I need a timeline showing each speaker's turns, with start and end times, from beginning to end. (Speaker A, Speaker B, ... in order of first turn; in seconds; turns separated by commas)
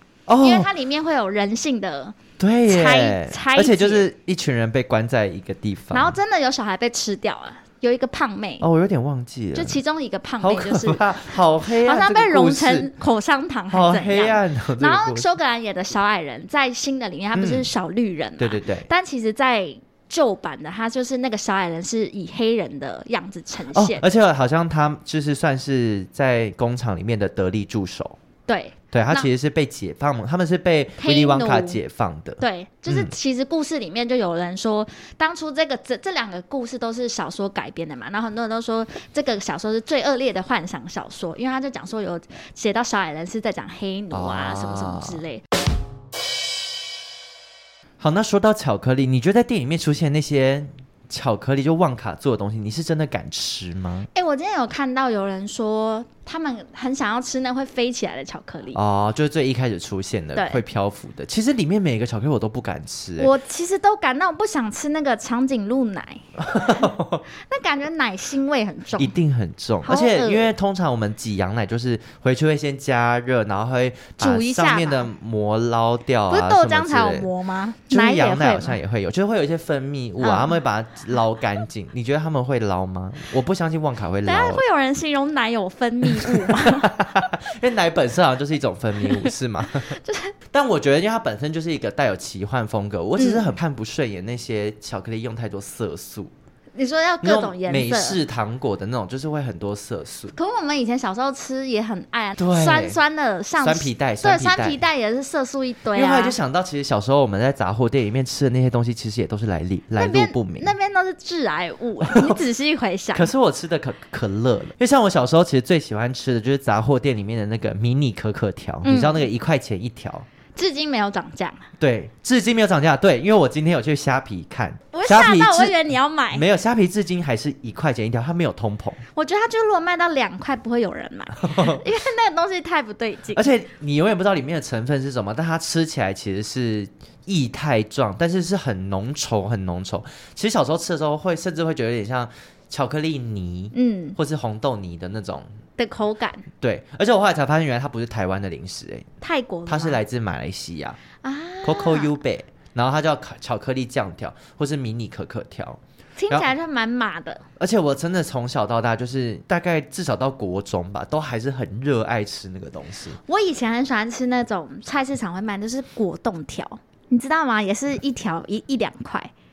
Speaker A: 0.3-0.7, Speaker B: 0.4-4.1, Speaker A: 2.4-6.2, Speaker B: 5.9-8.7, Speaker A: 8.6-9.8, Speaker B: 9.5-11.1, Speaker A: 10.4-12.9, Speaker B: 11.8-24.1, Speaker A: 13.7-15.3, Speaker A: 17.3-17.7, Speaker A: 18.4-18.9, Speaker A: 23.7-28.2, Speaker B: 28.5-29.3, Speaker A: 28.9-33.1, Speaker B: 31.0-31.8, Speaker B: 32.4-45.4, Speaker A: 44.1-45.2, Speaker A: 48.0-54.1, Speaker B: 54.1-58.8, Speaker A: 58.7-63.3, Speaker B: 60.4-60.6, Speaker B: 63.2-69.1, Speaker A: 66.4-67.2, Speaker A: 69.0-77.3, Speaker B: 69.8-70.5, Speaker B: 74.2-75.1, Speaker B: 76.3-78.8, Speaker A: 77.9-84.6, Speaker B: 80.2-80.6, Speaker B: 84.2-87.1, Speaker A: 86.1-89.9, Speaker B: 89.2-90.3, Speaker A: 90.5-96.3, Speaker B: 93.2-93.5, Speaker B: 96.8-98.2, Speaker A: 97.2-100.3, Speaker B: 100.3-106.4, Speaker A: 102.4-103.0, Speaker A: 103.6-104.8, Speaker A: 105.9-110.7, Speaker B: 110.0-113.3, Speaker A: 112.1-112.4, Speaker A: 113.2-120.3, Speaker B: 118.8-119.2, Speaker B: 120.6-121.7, Speaker A: 121.8-125.8, Speaker B: 124.9-126.5, Speaker A: 126.3-129.0, Speaker B: 129.2-133.4, Speaker A: 131.4-131.8, Speaker A: 133.3-145.5, Speaker B: 143.7-144.2, Speaker B: 145.8-146.5, Speaker A: 146.6-149.1, Speaker B: 149.2-150.0, Speaker A: 149.7-151.0, Speaker B: 151.2-152.2, Speaker A: 151.6-156.5, Speaker B: 156.2-157.4, Speaker A: 157.6-163.2, Speaker B: 163.3-169.3